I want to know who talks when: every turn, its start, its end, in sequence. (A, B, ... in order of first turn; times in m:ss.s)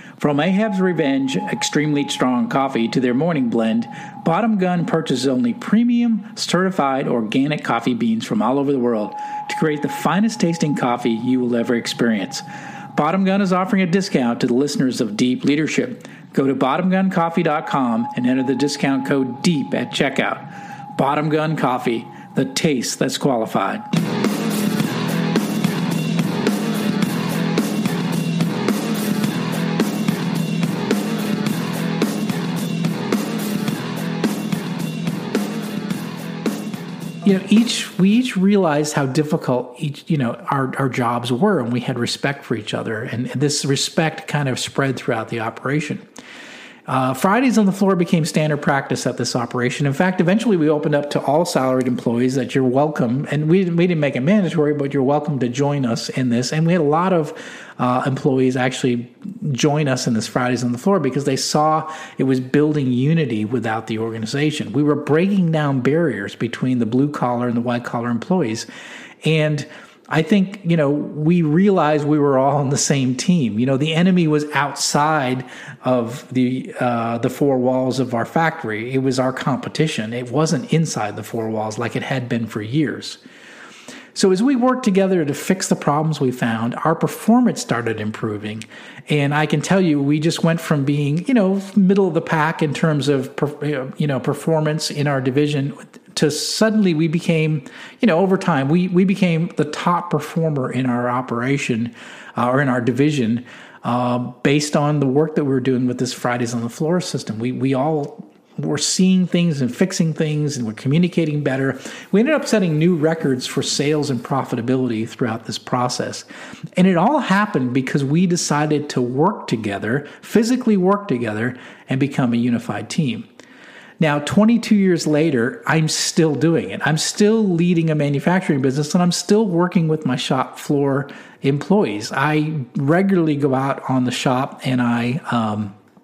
0:00.2-0:23.8 A
0:37.2-0:46.0 A
0:46.9-1:08.7 A
1:09.2-1:23.2 A
1:24.2-2:03.3 A
2:04.0-2:15.8 A